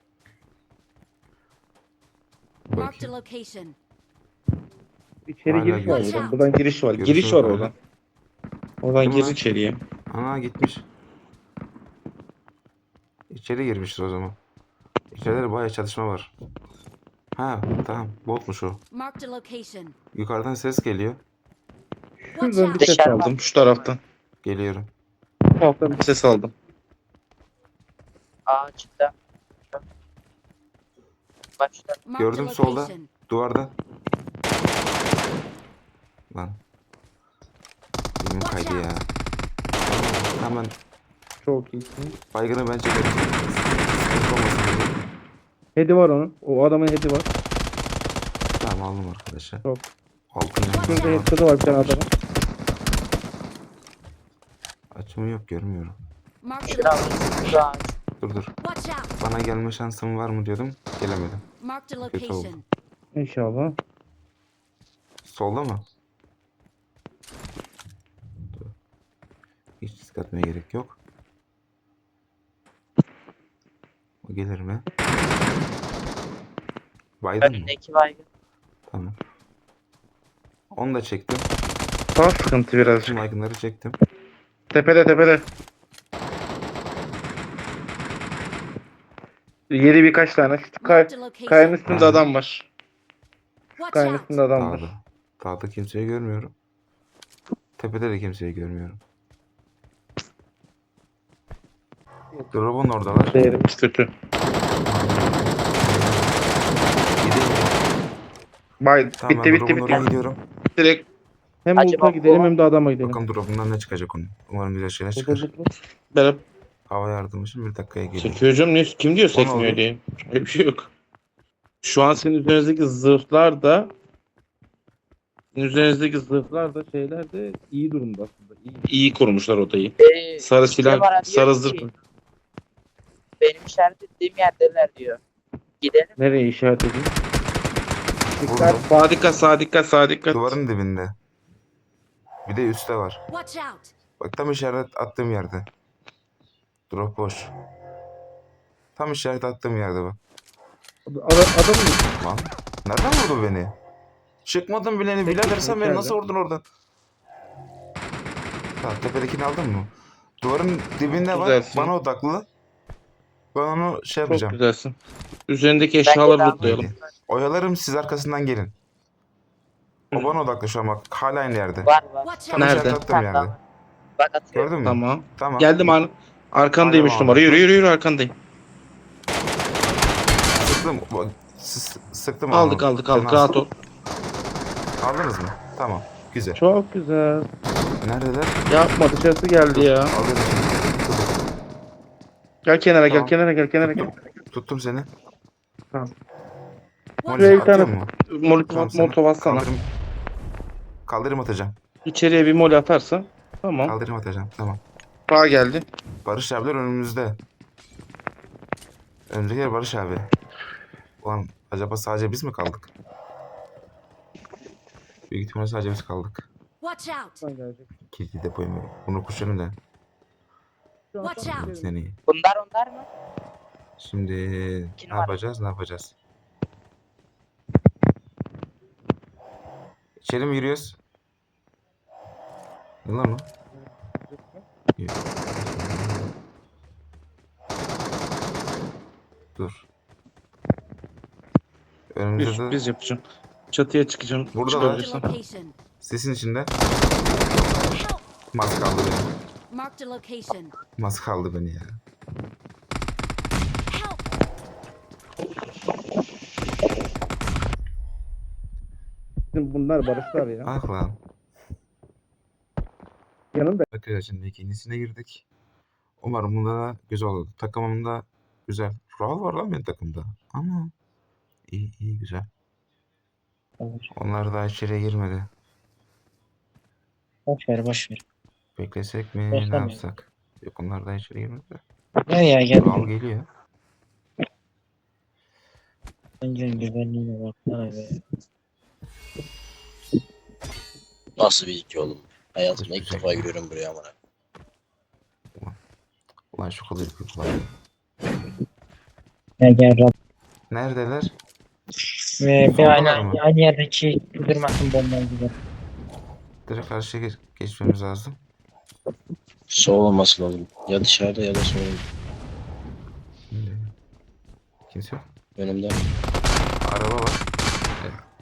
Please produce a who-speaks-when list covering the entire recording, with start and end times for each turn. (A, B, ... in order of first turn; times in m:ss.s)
0:02.7-0:03.1 A
0:02.8-0:03.7 B
0:05.3-0:07.7 C
0:05.5-0:06.2 A
0:05.8-0:06.4 B
0:07.0-0:07.7 A
0:08.8-0:09.8 C
0:09.0-0:09.4 A
0:10.1-0:10.9 A
0:13.3-0:14.4 A
0:15.1-0:16.3 A
0:17.4-0:18.8 A
0:18.9-0:19.9 B
0:20.1-0:21.2 A
0:22.3-0:24.0 C
0:22.3-0:22.9 B
0:22.8-0:23.9 D
0:24.4-0:24.9 A
0:25.6-0:26.5 C
0:28.5-0:29.1 D
0:31.6-0:32.0 D
0:32.0-0:33.1 B
0:32.2-0:33.7 A
0:36.3-0:36.6 A
0:38.2-0:39.1 A
0:38.4-0:38.8 B
0:39.8-0:40.7 A
0:41.4-0:42.1 C
0:42.3-0:45.0 A
0:45.8-0:47.3 C
0:48.6-0:49.6 A
0:50.3-0:51.9 A
0:50.7-0:51.2 B
0:50.9-0:52.1 C
0:54.9-0:56.0 A
0:56.4-0:57.0 B
0:56.7-0:57.9 D
0:58.2-0:58.5 A
0:58.6-0:59.1 B
0:59.2-1:01.4 A
1:01.6-1:02.6 B
1:02.0-1:02.5 A
1:03.1-1:03.8 C
1:05.2-1:05.8 A
1:09.8-1:11.0 A
1:14.2-1:14.8 A
1:17.2-1:17.7 A
1:17.4-1:18.2 D
1:18.9-1:19.2 A
1:20.7-1:21.5 A
1:22.2-1:23.2 C
1:23.0-1:24.0 A
1:24.7-1:25.5 C
1:29.7-1:32.7 C
1:30.8-1:31.8 B
1:31.8-1:32.2 A
1:33.8-1:34.3 B
1:33.9-1:34.9 C
1:34.5-1:36.5 A
1:37.8-1:39.0 A
1:42.5-1:43.4 A
1:43.3-1:44.1 C
1:44.8-1:46.4 A
1:47.2-1:47.8 A
1:48.8-1:50.1 C
1:49.2-1:50.4 A
1:50.8-1:51.1 C
1:51.6-1:53.2 C
1:51.8-1:52.6 D
1:53.0-1:55.5 A
1:55.1-1:56.4 C
1:56.9-1:58.4 A
1:58.2-2:00.9 C
1:59.3-1:59.8 A
2:01.8-2:03.9 C
2:05.5-2:11.9 C
2:10.0-2:11.9 D
2:13.4-2:15.2 D
2:15.8-2:16.1 D
2:16.2-2:17.1 C
2:18.4-2:20.6 C
2:18.4-2:18.8 A
2:20.3-2:21.1 A
2:22.4-2:23.2 A
2:23.3-2:23.9 B
2:24.2-2:25.7 A
2:26.9-2:27.5 A
2:29.0-2:30.2 A
2:31.1-2:32.0 C
2:32.2-2:33.7 A
2:34.4-2:36.6 A
2:35.2-2:36.2 C
2:38.8-2:42.4 A
2:41.2-2:41.9 C
2:43.5-2:44.6 A
2:44.3-2:45.0 C
2:45.5-2:46.9 C
2:46.0-2:46.6 D
2:46.6-2:48.7 A
2:50.1-2:51.9 A
2:51.8-2:52.4 D
2:52.2-2:52.6 B
2:52.5-2:53.5 A
2:52.5-2:53.1 C
2:53.1-2:53.6 D
2:54.2-2:54.7 D
2:54.5-2:56.0 A
2:54.8-2:58.4 C
2:56.8-2:57.7 A
3:00.5-3:03.6 A
3:02.5-3:03.7 C
3:05.0-3:06.6 A
3:06.6-3:07.5 C
3:08.0-3:08.6 A
3:08.7-3:10.1 C
3:09.7-3:11.4 A
3:12.6-3:14.1 C
3:13.1-3:15.1 A
3:17.2-3:17.7 B
3:17.2-3:18.1 A
3:17.4-3:19.7 C
3:18.7-3:19.8 A
3:21.0-3:21.8 A
3:22.0-3:23.9 C
3:23.8-3:24.8 A
3:25.3-3:25.8 C
3:26.2-3:27.4 A
3:29.3-3:30.3 A
3:31.2-3:32.9 A
3:35.3-3:36.5 A
3:36.8-3:37.4 B
3:37.4-3:37.9 C
3:38.1-3:39.8 A
3:41.1-3:41.9 C
3:41.2-3:41.7 B
3:41.4-3:42.2 A
3:42.3-3:43.1 D
3:44.0-3:46.1 A
3:45.0-3:45.4 D
3:50.2-3:51.0 A
3:53.0-3:53.5 A
3:54.3-3:54.6 C
3:55.0-3:56.3 A
3:59.6-3:59.9 A
4:02.1-4:02.8 A
4:02.4-4:05.3 C
4:04.5-4:05.0 A
4:04.7-4:05.7 B
4:06.0-4:06.7 A
4:07.9-4:08.2 B
4:08.5-4:09.3 A
4:09.7-4:10.7 B
4:11.0-4:12.0 A
4:13.9-4:14.2 B
4:19.5-4:20.7 C
4:20.6-4:21.2 A
4:23.5-4:23.8 C
4:23.9-4:25.4 A
4:26.2-4:30.9 A
4:31.7-4:32.5 A
4:33.8-4:34.1 E
4:34.1-4:35.5 A
4:37.5-4:38.2 E
4:38.8-4:41.8 A
4:39.5-4:40.0 E
4:42.3-4:43.1 E
4:42.8-4:43.5 A
4:46.4-4:48.2 E
4:51.4-4:54.1 F
4:52.7-4:53.5 A
4:56.5-4:57.7 A
4:59.6-5:00.1 E
5:00.7-5:01.3 A
5:02.4-5:05.5 E
5:02.7-5:03.4 A
5:06.6-5:08.4 A
5:09.7-5:12.0 F
5:13.5-5:13.9 A
5:14.9-5:15.2 A
5:15.6-5:16.0 F
5:16.8-5:17.4 A